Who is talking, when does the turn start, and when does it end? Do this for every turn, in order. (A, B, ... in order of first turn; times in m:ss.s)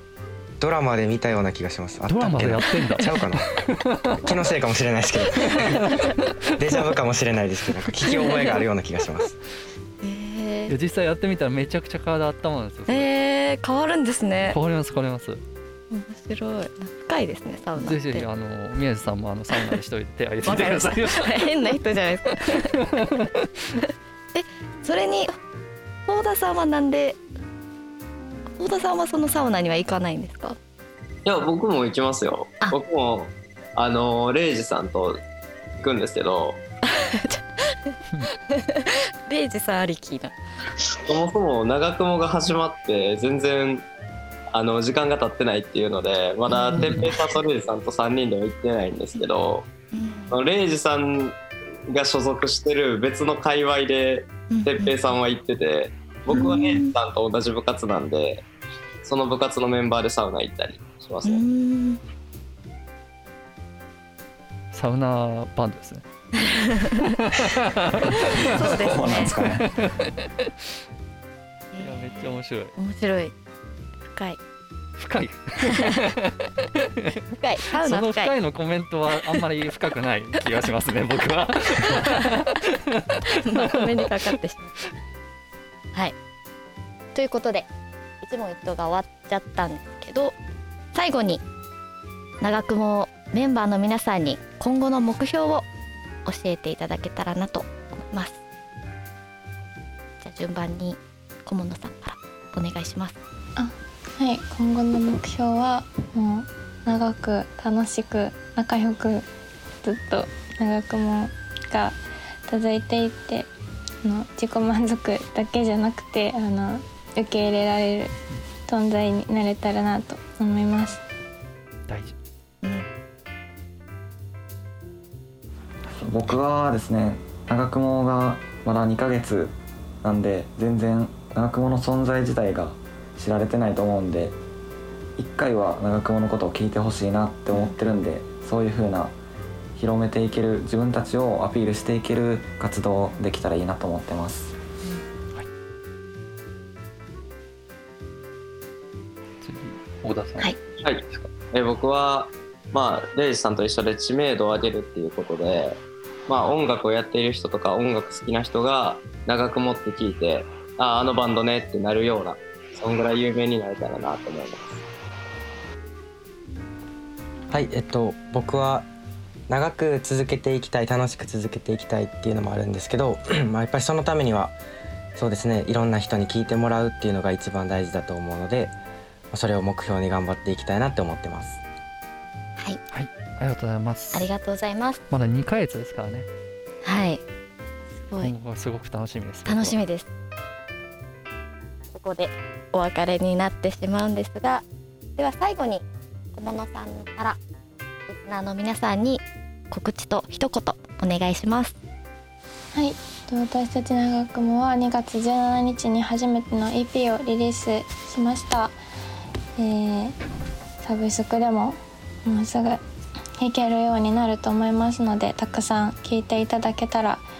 0:00.6-0:03.6 A
0:02.1-0:04.4 B
0:04.2-0:09.4 A
0:05.3-0:06.2 C
0:05.5-0:06.3 B
0:08.1-0:08.5 C
0:10.0-0:10.7 C
0:10.7-0:13.1 B
0:12.9-0:14.6 C
0:14.5-0:15.4 B
0:15.9-0:18.3 C
0:17.8-0:21.7 B
0:19.5-0:19.8 C
0:20.4-0:22.9 C
0:22.6-0:23.5 B
0:24.3-0:25.4 C
0:26.0-0:27.2 C
0:28.6-0:30.6 C
0:31.2-0:35.2 D
0:35.8-0:36.6 D
0:36.9-0:38.0 C
0:38.5-0:40.3 C
0:41.0-0:43.8 D
0:44.5-0:49.7 D
0:46.5-0:47.2 C
0:46.8-0:47.1 B
0:49.9-0:50.3 C
0:50.3-0:51.4 D
0:51.9-0:58.4 D
0:54.5-0:55.0 C
0:56.3-0:56.9 C
0:59.0-1:01.4 D
1:01.2-1:02.0 C
1:04.7-1:06.0 B
1:06.4-1:07.2 C
1:07.2-1:08.7 B
1:08.1-1:09.4 C
1:08.2-1:09.7 E
1:09.3-1:10.5 B
1:11.7-1:13.3 C
1:11.8-1:12.7 B
1:14.1-1:14.4 C
1:15.0-1:17.2 B
1:15.6-1:16.1 C
1:17.3-1:18.3 C
1:17.7-1:24.2 B
1:21.7-1:22.4 C
1:23.2-1:24.9 C
1:27.1-1:27.7 C
1:28.2-1:30.4 C
1:30.9-1:31.4 C
1:32.4-1:35.6 C
1:36.2-1:38.4 C
1:40.2-1:43.1 C
1:43.6-1:49.2 F
1:49.8-1:53.5 F
1:54.0-1:58.1 F
1:58.7-2:01.0 F
2:01.9-2:02.1 B
2:05.9-2:14.4 E
2:15.2-2:19.1 E
2:19.7-2:24.6 E
2:29.4-2:30.5 B
2:30.8-2:44.8 D
2:47.5-2:48.9 A
2:49.5-2:54.6 A
2:55.2-2:58.8 A
2:59.3-3:01.6 A
3:02.9-3:04.3 B
3:04.1-3:05.0 C
3:05.1-3:06.3 B
3:06.8-3:07.2 C
3:08.0-3:08.3 C
3:08.2-3:09.8 B
3:09.4-3:10.1 C
3:11.9-3:14.6 C
3:15.2-3:15.8 C
3:16.3-3:17.4 C
3:18.1-3:21.8 C
3:22.7-3:28.8 F
3:29.6-3:30.2 F
3:30.8-3:32.8 F
3:33.4-3:37.2 F